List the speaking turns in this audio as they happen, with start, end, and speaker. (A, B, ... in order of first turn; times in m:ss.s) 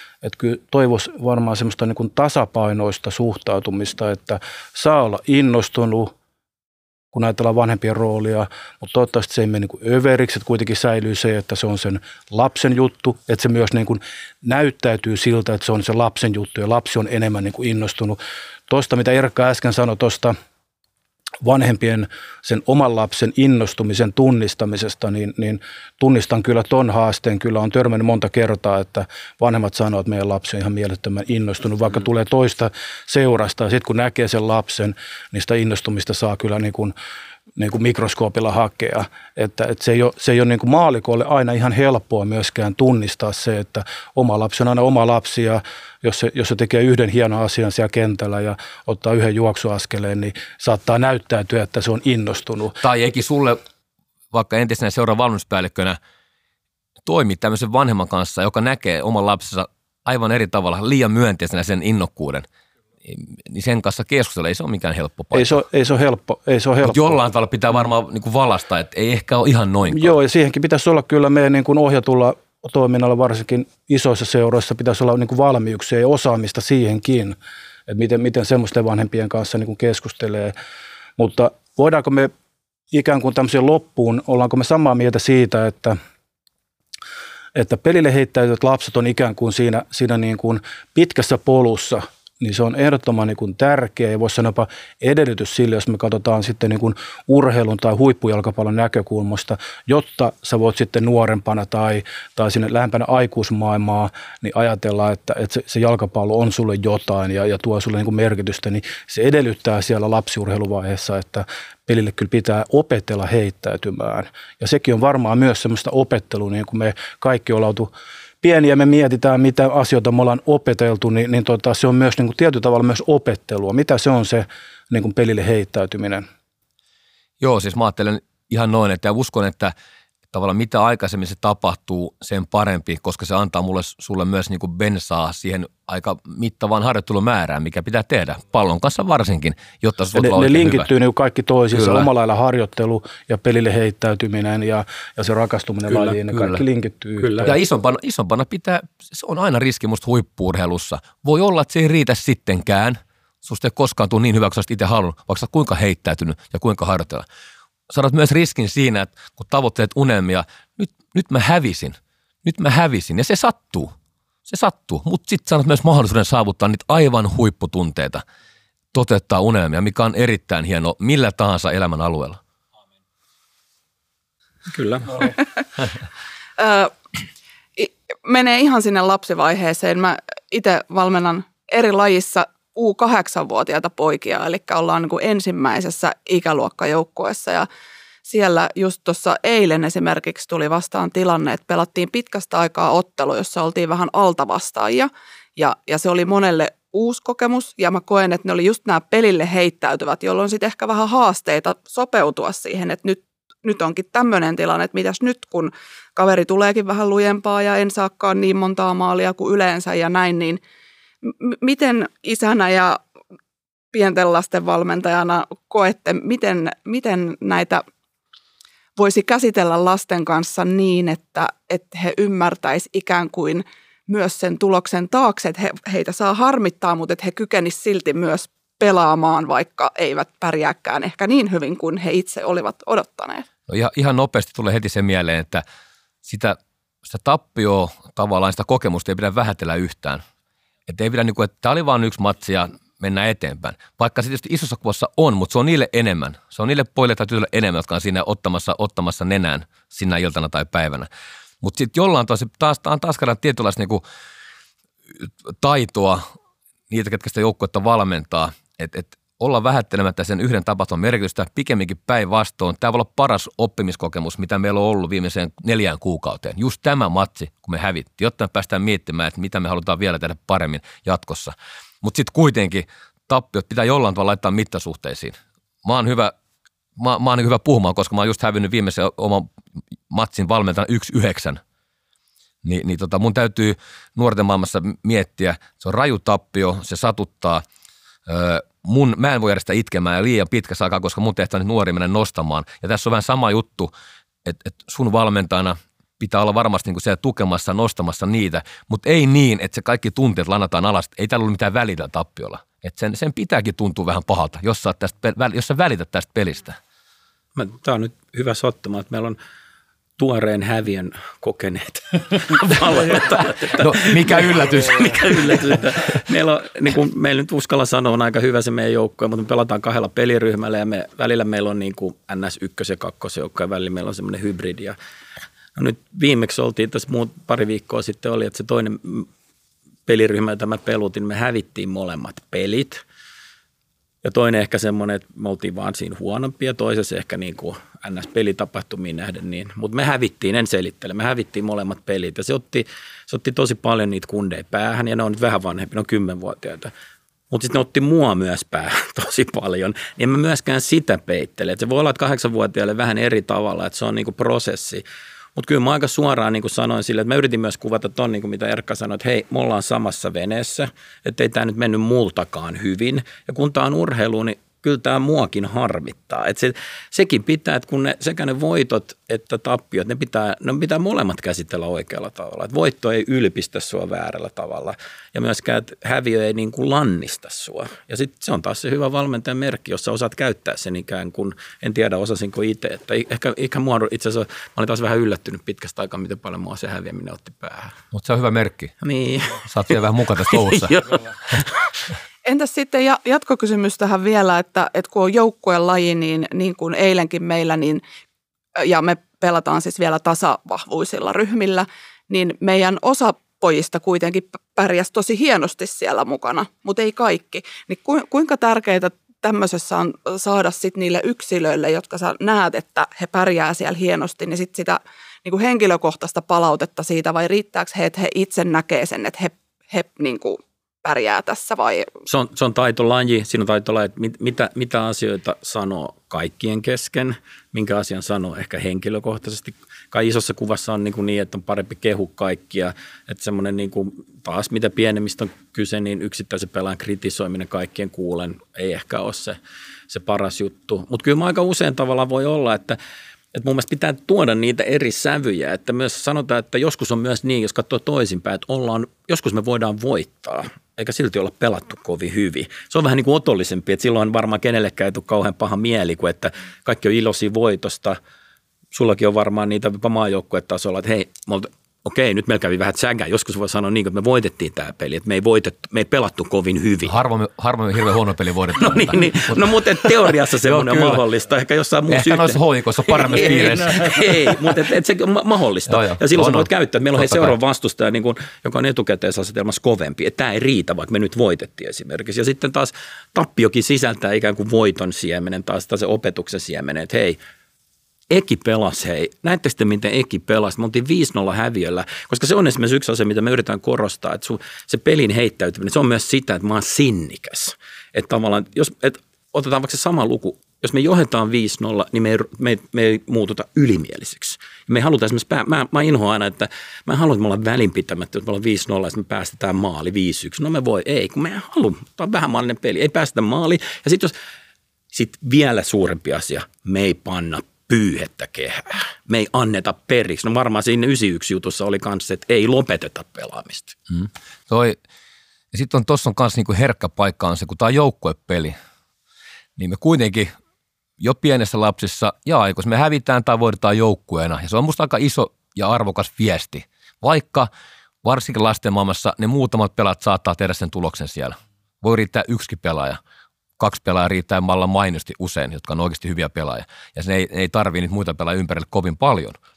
0:00.2-0:06.1 A
0:07.1-0:20.3 A
0:21.4-0:36.9 A
0:37.6-0:52.8 A
0:52.8-0:53.6 B
0:54.3-0:56.0 B
0:57.0-1:02.4 B
1:03.0-1:05.6 B
1:05.3-1:07.2 A
1:06.8-1:10.1 B
1:09.9-1:17.4 A
1:17.9-1:20.5 A
1:21.2-1:22.3 A
1:22.9-1:26.0 A
1:27.6-1:57.9 A
1:58.4-2:06.2 A
2:07.4-2:09.7 B
2:10.3-2:20.9 B
2:20.1-2:27.6 A
2:21.7-2:22.1 B
2:26.1-2:26.6 B
2:27.2-2:27.5 C
2:27.4-2:37.2 B
2:37.9-2:43.9 B
2:44.5-2:48.2 B
2:48.9-2:52.4 B
2:54.6-2:55.3 C
2:56.6-2:56.9 D
2:57.8-3:07.7 D
3:08.3-3:30.6 D
3:31.2-3:33.0 D
3:33.9-3:37.8 D
3:39.0-3:53.4 D
3:53.7-3:55.6 B
3:56.2-4:00.2 B
4:00.9-4:11.1 B
4:11.6-4:14.0 B
4:15.2-4:16.3 B
4:16.9-4:36.3 B
4:37.0-4:39.5 B
4:40.1-4:41.6 B
4:42.6-4:47.6 B
4:48.3-4:53.9 B
4:54.4-5:06.8 B
5:07.6-5:09.4 C
5:10.2-5:25.0 C
5:13.6-5:15.8 B
5:25.7-5:29.3 C
5:30.0-5:33.0 C
5:34.2-5:46.9 C
5:47.5-5:55.0 C
5:55.6-6:28.0 C
6:28.1-6:29.0 B
6:29.0-6:30.0 C
6:29.6-6:31.6 B
6:30.5-6:31.9 C
6:32.4-6:38.0 D
6:38.8-7:02.1 D
7:02.3-7:19.6 C
7:20.1-7:23.0 C
7:23.5-7:38.2 C
7:38.9-7:47.1 C
7:47.0-7:49.7 B
7:48.8-8:07.4 C
7:50.6-7:51.2 B
7:52.1-7:54.5 B
7:55.9-7:57.6 B
8:08.3-8:34.3 C
8:35.1-8:44.0 C
8:44.1-8:45.0 B
8:45.7-8:48.8 B
8:49.8-8:50.5 B
8:51.2-8:57.7 B
8:58.2-9:03.2 B
9:03.8-9:09.6 B